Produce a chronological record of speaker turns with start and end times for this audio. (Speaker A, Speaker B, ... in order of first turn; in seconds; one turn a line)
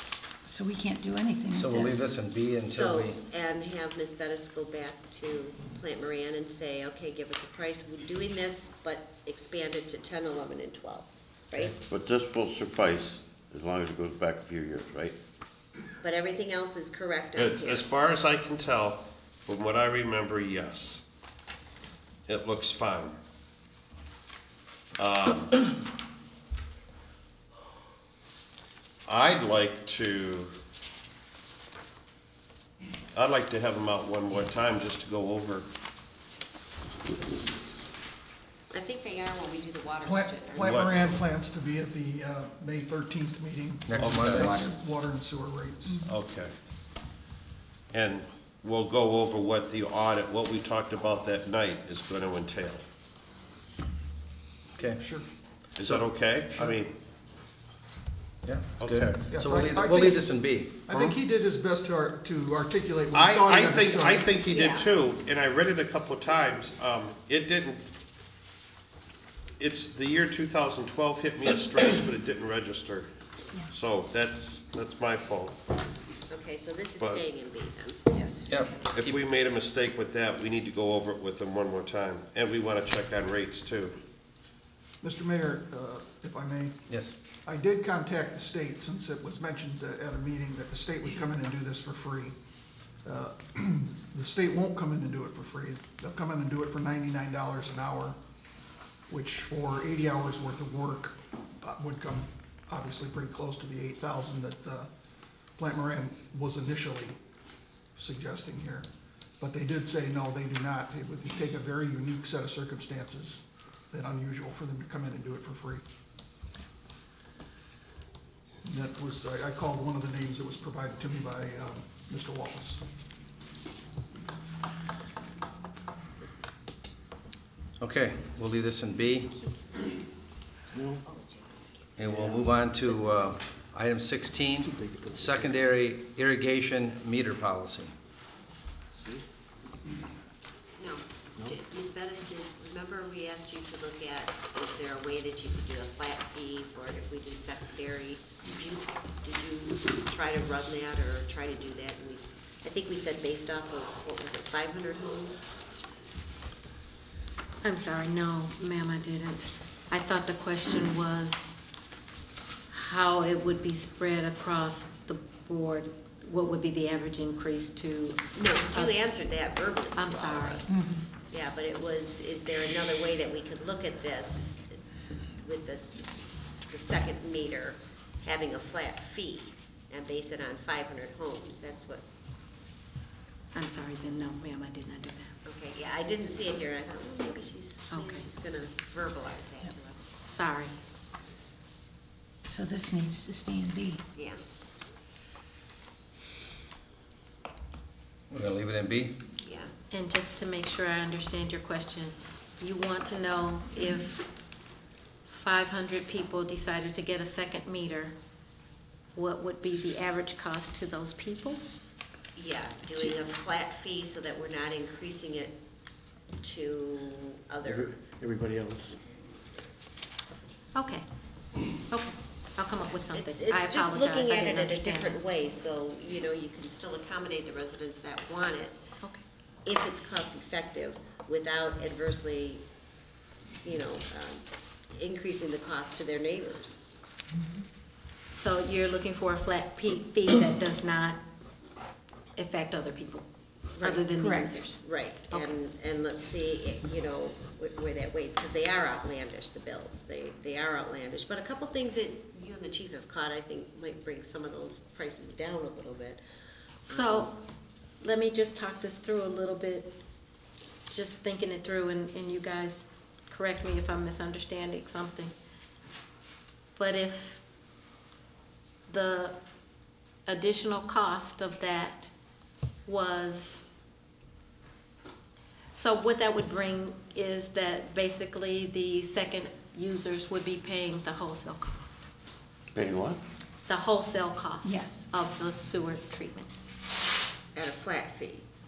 Speaker A: 0.5-2.1
Speaker B: 1.5-3.2
Speaker C: 2.6-11.8
Speaker D: 11.9-15.2
Speaker C: 16.0-17.9
Speaker E: 17.3-21.0
Speaker E: 22.3-23.2
Speaker E: 25.0-25.6
Speaker E: 29.1-30.6
Speaker E: 33.1-35.7
Speaker C: 38.7-41.2
Speaker F: 40.0-46.0
Speaker E: 40.6-40.9
Speaker B: 43.9-44.7
Speaker E: 44.0-44.5
Speaker E: 46.0-46.5
Speaker E: 47.9-52.8
Speaker F: 54.9-55.2
Speaker E: 55.8-56.9
Speaker B: 55.8-56.1
Speaker B: 58.4-61.1
Speaker E: 58.8-59.2
Speaker F: 59.3-64.3
Speaker E: 63.1-67.8
Speaker C: 64.5-64.9
Speaker E: 69.6-73.1
Speaker E: 73.7-75.5
Speaker C: 76.3-78.0
Speaker A: 78.1-78.5
Speaker B: 78.5-79.2
Speaker E: 78.8-83.9
Speaker F: 85.0-86.8
Speaker F: 87.4-92.3
Speaker F: 93.0-98.2
Speaker F: 99.1-104.9
Speaker F: 105.6-107.2
Speaker F: 107.9-108.9
Speaker F: 109.4-115.8
Speaker F: 118.6-122.8
Speaker B: 127.8-129.3
Speaker G: 130.7-131.0
Speaker C: 131.0-132.0
Speaker B: 131.9-137.9
Speaker G: 134.6-135.5
Speaker C: 140.8-155.4
Speaker H: 157.6-161.6
Speaker H: 162.7-169.0
Speaker C: 168.3-170.8
Speaker H: 169.9-170.6
Speaker A: 170.7-171.1
Speaker C: 171.3-174.8
Speaker C: 175.4-182.0
Speaker H: 183.5-185.4
Speaker C: 185.4-190.2
Speaker H: 187.9-188.3
Speaker H: 190.2-190.8
Speaker A: 192.4-194.0
Speaker C: 194.1-194.4
Speaker B: 198.3-199.2
Speaker C: 199.4-199.7
Speaker H: 199.9-204.3
Speaker H: 205.3-208.1
Speaker H: 209.1-211.6
Speaker C: 212.3-215.6
Speaker C: 216.4-217.9
Speaker G: 217.7-218.9
Speaker H: 220.7-221.0
Speaker H: 221.9-225.2
Speaker C: 223.1-228.8
Speaker C: 229.6-232.6
Speaker C: 233.6-236.8
Speaker H: 238.3-241.2
Speaker H: 242.3-243.2
Speaker C: 243.8-244.1
Speaker H: 243.8-245.5
Speaker A: 244.2-244.6
Speaker C: 244.7-256.2
Speaker C: 256.9-257.3
Speaker H: 256.9-257.4
Speaker H: 258.0-260.0
Speaker H: 260.9-265.3
Speaker H: 266.8-267.4
Speaker H: 268.9-269.4
Speaker H: 270.3-272.1
Speaker H: 272.8-273.6
Speaker H: 275.7-282.1
Speaker D: 282.7-283.2
Speaker H: 283.7-286.6
Speaker A: 284.6-285.1
Speaker C: 287.5-288.4